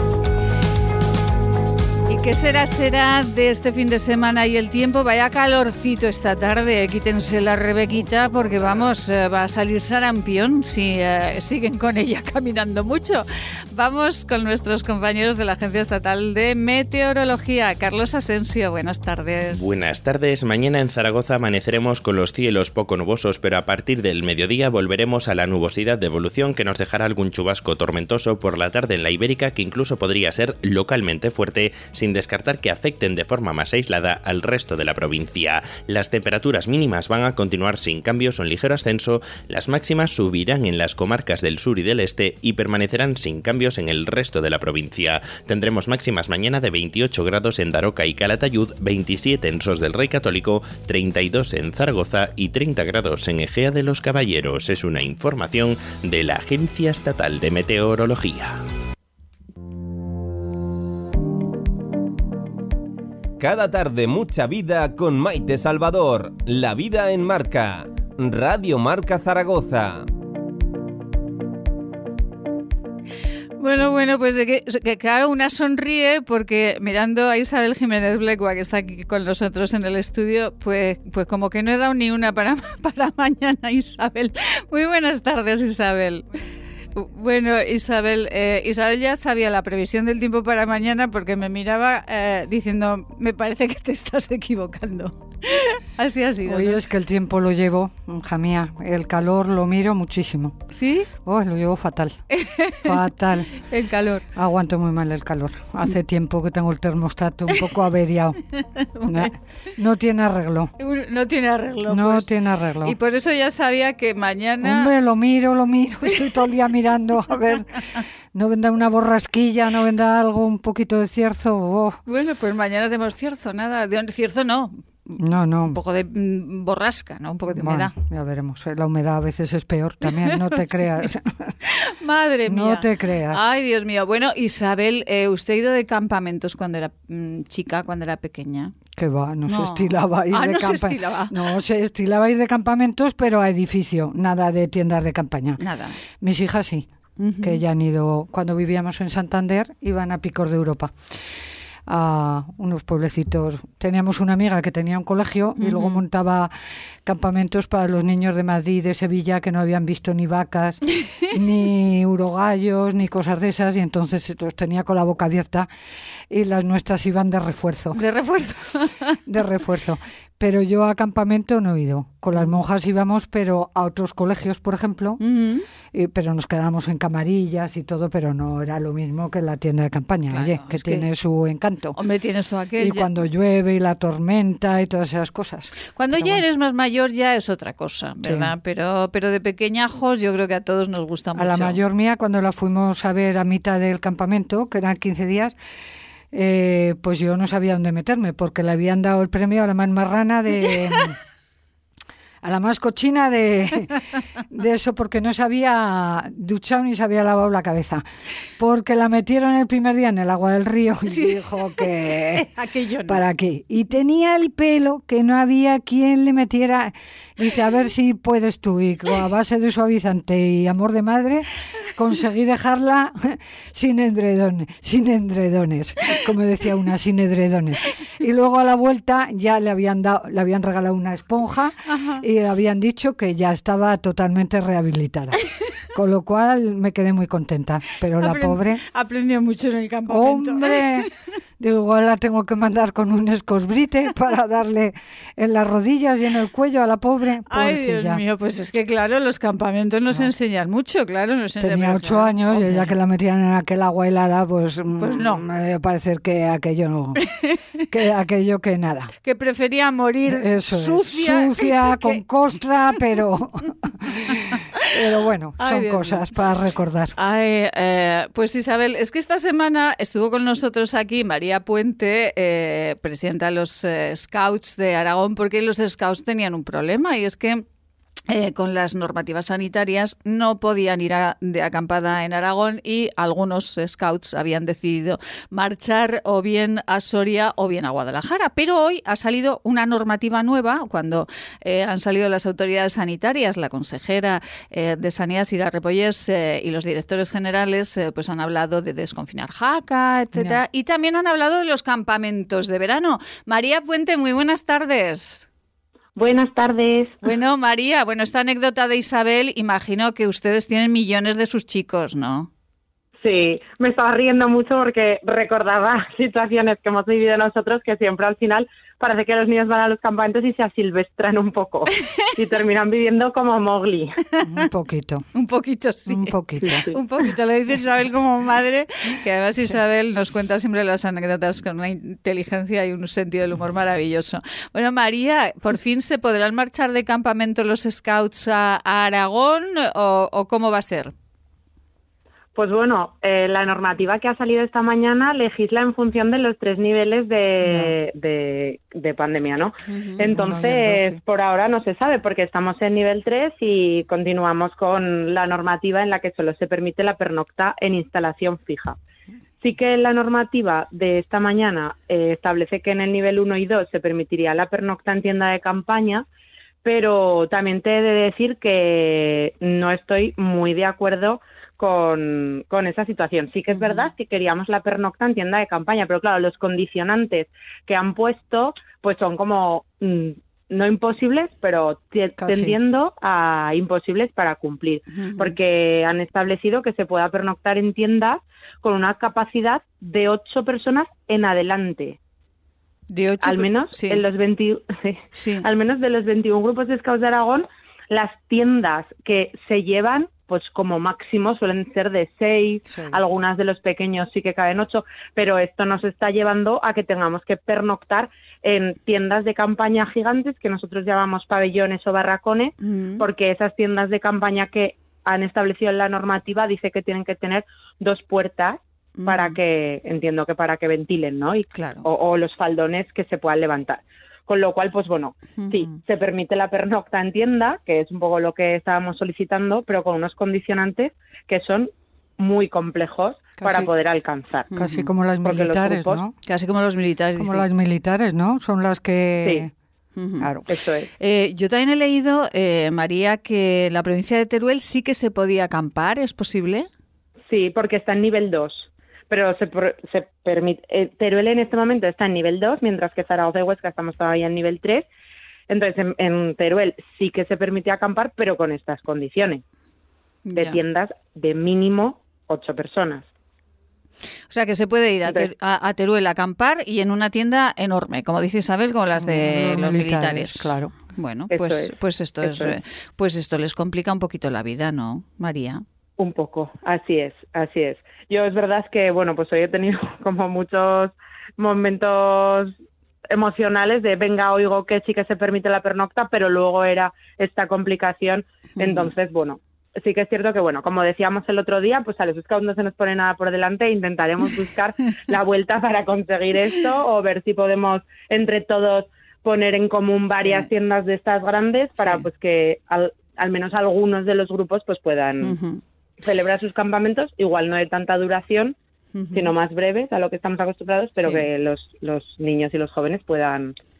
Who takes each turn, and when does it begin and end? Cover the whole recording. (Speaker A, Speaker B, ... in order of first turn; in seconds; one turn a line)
Speaker A: 2.1-19.7
Speaker B: 19.5-58.6
Speaker C: 63.4-70.1
Speaker A: 73.6-86.2
Speaker A: 86.9-96.8
Speaker D: 96.5-100.6
Speaker A: 100.7-101.1
Speaker D: 101.2-102.2
Speaker A: 102.3-102.9
Speaker D: 102.8-103.5
Speaker A: 103.6-104.2
Speaker D: 104.3-108.4
Speaker A: 108.8-109.3
Speaker D: 109.1-110.7
Speaker A: 110.8-112.3
Speaker D: 111.9-113.0
Speaker A: 112.8-114.9
Speaker D: 114.6-117.8
Speaker D: 118.3-122.0
Speaker A: 122.1-127.9
Speaker D: 125.2-125.8
Speaker D: 127.5-131.6
Speaker A: 130.1-130.8
Speaker A: 131.6-138.8
Speaker D: 132.5-133.4
Speaker D: 138.9-145.6
Speaker A: 139.5-141.3
Speaker A: 145.6-146.0
Speaker D: 146.2-146.9
Speaker A: 147.2-147.6
Speaker D: 147.4-150.9
Speaker D: 151.8-156.5
Speaker A: 155.6-156.0
Speaker D: 157.1-165.7
Speaker D: 166.3-168.0
Speaker A: 167.9-169.2
Speaker D: 169.2-175.2
Speaker A: 175.2-175.7
Speaker D: 175.9-182.0
Speaker A: 180.3-181.1
Speaker A: 181.9-183.1
Speaker D: 182.8-186.4
Speaker A: 185.9-191.8
Speaker D: 188.2-188.5
Speaker D: 191.3-195.6
Speaker D: 196.3-201.2
Speaker D: 202.4-208.0
Speaker D: 208.6-212.5
Speaker A: 211.1-213.2
Speaker D: 213.1-235.4
Speaker A: 231.9-232.2
Speaker D: 235.9-238.8
Speaker A: 238.2-241.1
Speaker D: 240.1-248.2
Speaker A: 247.5-252.9
Speaker D: 251.6-257.2
Speaker A: 255.0-255.4
Speaker A: 257.2-257.8
Speaker D: 257.9-259.1
Speaker A: 259.2-262.2
Speaker D: 260.3-267.1
Speaker A: 264.2-264.9
Speaker A: 265.6-266.2
Speaker A: 267.2-277.6
Speaker A: 278.3-305.5
Speaker D: 300.4-300.6
Speaker E: 306.2-307.2
Speaker A: 307.2-312.5
Speaker E: 313.2-324.2
Speaker D: 324.4-325.2
Speaker A: 325.3-341.1
Speaker D: 326.1-326.9
Speaker E: 326.6-326.9
Speaker E: 342.6-359.0
Speaker D: 347.6-347.9
Speaker A: 349.9-350.2
Speaker D: 350.3-351.2
Speaker E: 359.6-366.2
Speaker E: 366.8-392.2
Speaker A: 373.7-374.1
Speaker D: 382.4-382.8
Speaker A: 385.1-385.6
Speaker A: 393.1-394.2
Speaker E: 393.4-434.7
Speaker A: 395.4-395.7
Speaker D: 402.9-403.2
Speaker A: 412.8-413.3
Speaker A: 419.2-419.6
Speaker A: 421.7-422.1
Speaker A: 425.6-426.0
Speaker D: 433.6-433.9
Speaker A: 434.7-435.1
Speaker D: 434.7-436.3
Speaker E: 435.4-436.2
Speaker A: 436.4-437.7
Speaker D: 437.4-439.7
Speaker A: 440.2-440.5
Speaker D: 440.4-440.6
Speaker E: 440.7-441.1
Speaker A: 441.2-446.9
Speaker E: 447.5-455.1
Speaker E: 455.7-459.6
Speaker A: 460.4-460.8
Speaker E: 460.6-463.3
Speaker A: 464.5-475.8
Speaker D: 469.2-470.9
Speaker E: 471.5-472.8
Speaker E: 476.2-482.7
Speaker E: 483.3-505.6
Speaker A: 488.8-489.1
Speaker A: 500.3-500.7
Speaker A: 502.0-502.3
Speaker A: 505.4-505.8
Speaker E: 506.2-508.8
Speaker A: 509.1-509.5
Speaker E: 509.3-513.8
Speaker A: 511.2-511.5